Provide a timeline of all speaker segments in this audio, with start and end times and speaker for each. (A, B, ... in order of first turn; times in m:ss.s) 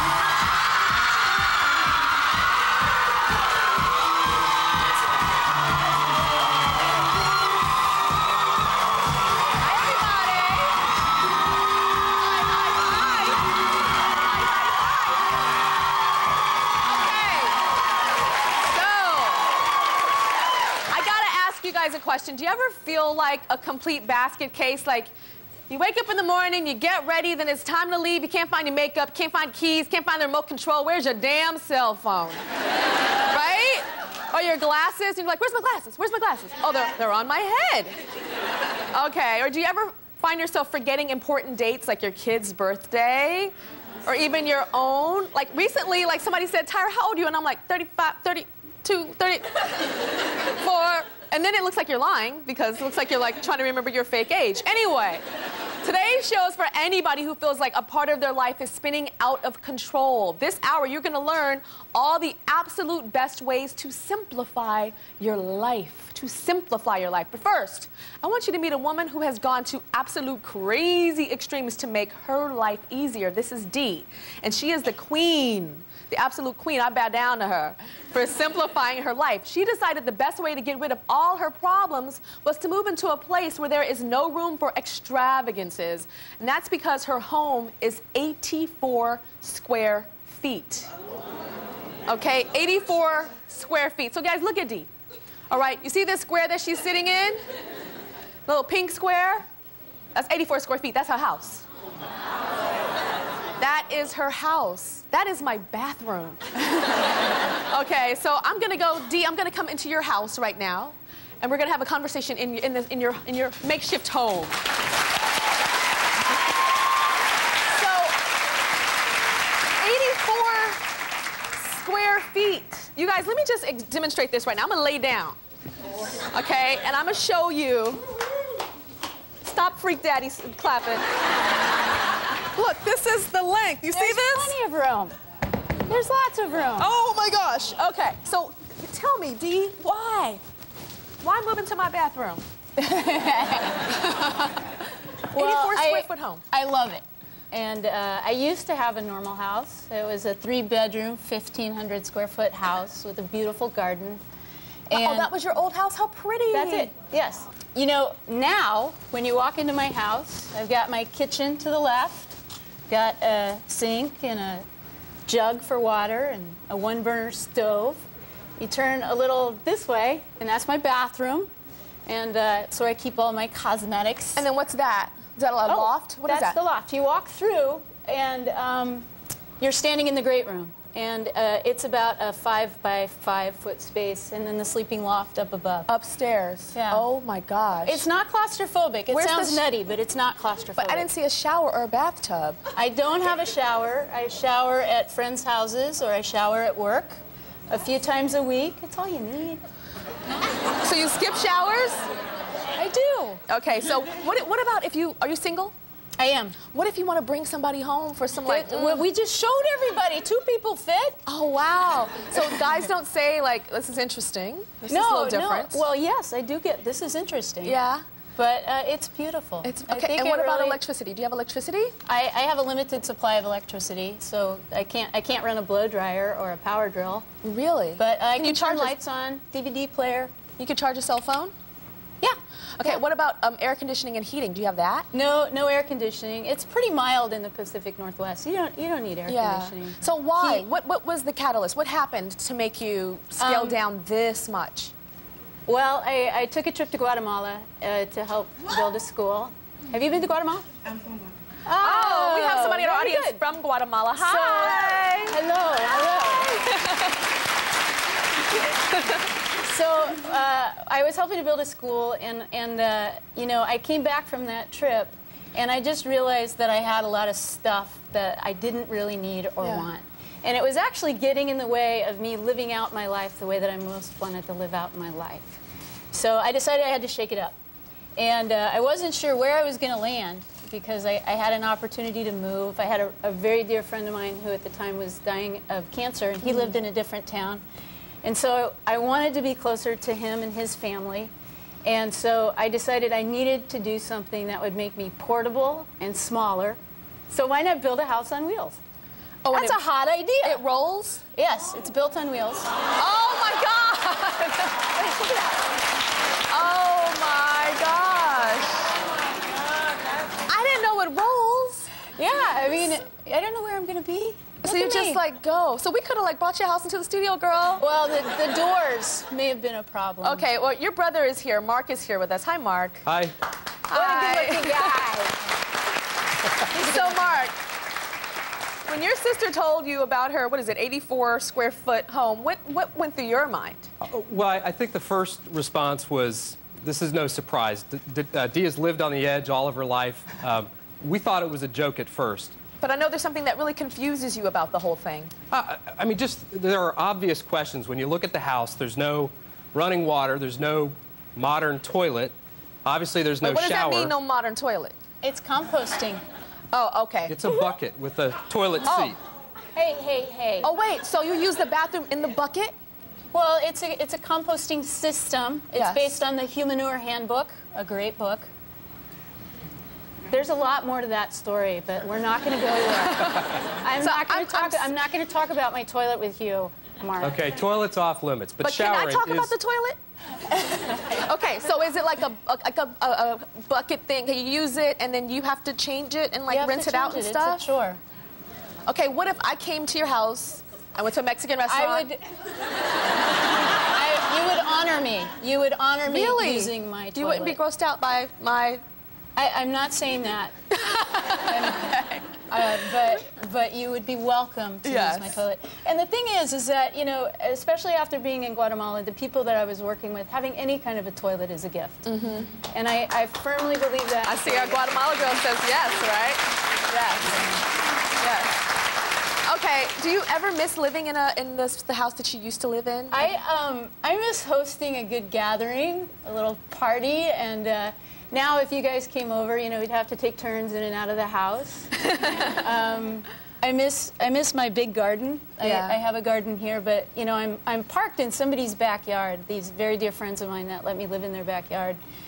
0:09.6-0:10.8 A
0:12.2-0:13.4 A
0:14.2-0:15.5 A
0:16.8-0:17.6 A
0:18.6-0:19.5 A
0:20.9-0:25.1 A
0:25.7-0:32.4 A
0:33.3-0:37.9 A
0:38.9-0:43.5 A
0:44.0-0:49.7 A
0:50.6-0:55.2 A
0:55.8-1:30.9 A
1:32.1-1:34.9 A
1:35.5-1:37.4 A
1:38.5-1:39.4 A
1:40.1-1:41.6 A
1:43.6-1:47.1 A
1:47.7-1:54.6 A
1:57.7-1:58.2 A
1:59.8-2:00.8 A
2:01.6-2:05.4 A
2:06.3-2:08.0 A
2:09.4-2:11.0 A
2:12.5-2:14.5 A
2:13.9-2:15.1 B
2:15.9-2:16.9 B
2:16.8-2:20.4 A
2:21.2-2:22.4 A
2:22.8-2:23.9 B
2:25.3-2:34.2 B
2:25.3-2:26.4 A
2:34.9-2:35.3 B
2:34.9-2:36.9 A
2:36.5-2:44.6 B
2:45.2-2:48.0 B
2:48.6-2:51.5 B
2:52.0-2:54.4 B
2:54.4-2:56.6 A
2:55.6-2:59.1 B
2:59.6-3:05.9 B
3:05.9-3:08.0 A
3:06.7-3:07.0 B
3:07.8-3:11.1 B
3:09.1-3:09.6 A
3:10.8-3:12.6 A
3:12.7-3:17.2 B
3:17.7-3:19.6 B
3:20.8-3:22.1 A
3:22.7-3:23.4 B
3:23.5-3:25.7 A
3:26.2-3:26.6 B
3:26.7-3:29.0 A
3:28.4-3:31.2 B
3:31.3-3:35.8 A
3:34.9-3:37.8 B
3:37.6-3:38.0 A
3:38.4-3:40.8 B
3:39.6-3:41.9 A
3:42.0-3:47.2 B
3:47.4-3:48.9 A
3:48.0-3:50.3 B
3:50.6-3:51.5 A
3:52.2-3:53.0 B
3:52.8-3:55.1 A
3:55.1-4:00.7 B
3:59.2-4:04.9 A
4:03.4-4:03.8 B
4:05.6-4:10.6 B
4:11.6-4:13.4 B
4:11.8-4:15.4 A
4:14.2-4:16.6 B
4:16.2-4:17.1 A
4:19.6-4:37.5 B
4:38.2-4:47.6 B
4:48.2-4:51.3 B
4:51.8-4:58.8 B
4:59.4-4:59.8 A
4:59.5-5:00.6 B
5:00.4-5:01.2 A
5:01.3-5:02.7 B
5:03.0-5:04.5 A
5:04.7-5:05.5 B
5:06.5-5:08.9 A
5:10.5-5:11.9 A
5:12.1-5:15.2 B
5:14.6-5:17.8 A
5:17.8-5:20.5 B
5:20.2-5:23.0 A
5:23.0-5:23.3 C
5:23.9-5:25.0 A
5:23.9-5:25.4 B
5:26.7-5:27.4 B
5:26.7-5:27.6 A
5:28.9-5:33.9 A
5:34.0-5:42.5 C
5:42.8-5:45.3 A
5:45.5-5:52.3 C
5:52.8-5:54.1 C
5:53.4-5:54.9 A
5:55.2-5:56.2 B
5:56.7-5:57.4 A
5:57.3-5:59.2 C
5:58.8-5:59.2 A
5:59.7-6:00.7 B
6:00.6-6:02.7 A
6:03.3-6:08.5 B
6:05.8-6:06.1 A
6:10.3-6:17.4 B
6:14.0-6:14.9 A
6:17.2-6:19.5 C
6:18.6-6:20.0 A
6:21.2-6:27.6 A
6:26.5-6:28.0 B
6:28.9-6:32.1 A
6:31.6-6:32.2 B
6:33.9-6:37.6 B
6:36.1-6:38.8 A
6:39.4-6:40.5 B
6:40.8-6:42.3 A
6:41.4-6:52.0 B
6:44.8-6:45.4 A
6:52.0-6:52.5 A
6:52.6-6:55.1 B
6:54.2-6:57.5 A
6:58.2-6:58.6 A
6:59.5-7:03.2 A
7:03.1-7:12.0 B
7:12.5-7:22.0 B
7:15.6-7:16.0 A